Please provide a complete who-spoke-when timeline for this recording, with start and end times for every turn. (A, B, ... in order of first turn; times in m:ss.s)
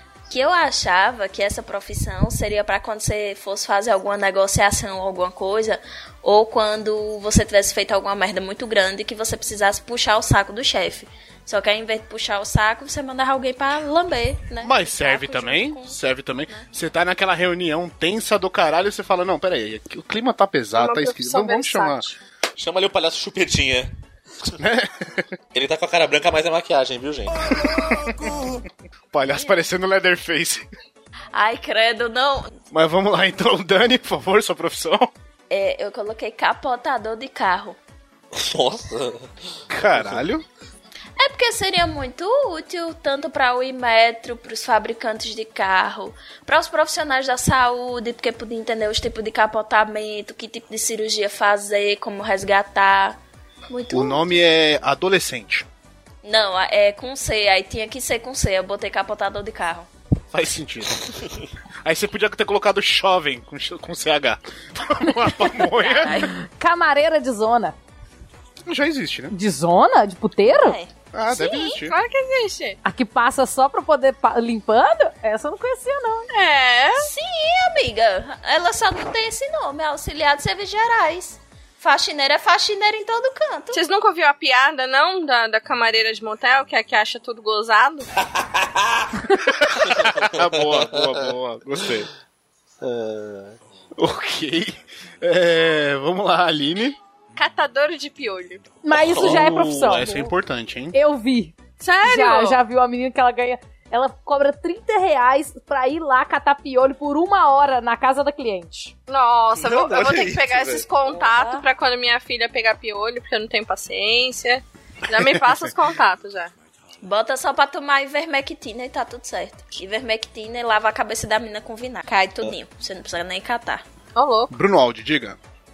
0:00.3-0:16.0 A
0:14.6-0:22.0 B
0:20.8-0:22.2 C
0:22.6-0:23.9 D
0:24.6-0:25.2 B
0:25.5-0:27.8 D
0:27.7-0:28.4 B
0:29.1-0:30.6 B
0:31.3-0:32.5 A
0:32.7-0:35.1 B
0:35.5-0:37.8 A
0:38.3-0:39.3 D
0:39.7-0:40.4 B
0:39.9-0:40.2 D
0:41.2-0:54.4 A
0:53.9-0:55.7 B
0:56.2-0:59.9 A
1:00.3-1:01.1 B
1:01.8-1:06.2 B
1:05.8-1:06.3 A
1:06.1-1:07.8 E
1:08.7-1:09.3 B
1:09.3-1:10.8 E
1:10.5-1:10.9 A
1:11.1-1:11.9 B
1:11.3-1:12.8 C
1:12.8-1:16.3 E
1:16.3-1:17.1 C
1:17.0-1:23.8 A
1:23.7-1:28.1 C
1:28.4-1:29.1 D
1:29.4-1:32.1 B
1:29.9-1:31.3 D
1:32.8-1:33.6 D
1:34.0-1:37.0 B
1:37.4-1:38.6 C
1:38.8-1:40.3 E
1:39.0-1:39.5 D
1:39.1-1:41.0 B
1:40.9-1:48.9 E
1:41.8-1:42.6 C
1:49.1-1:56.5 C
1:49.6-1:50.8 D
1:51.0-1:51.6 A
1:57.0-2:03.8 A
2:04.2-2:04.5 C
2:04.5-2:05.4 B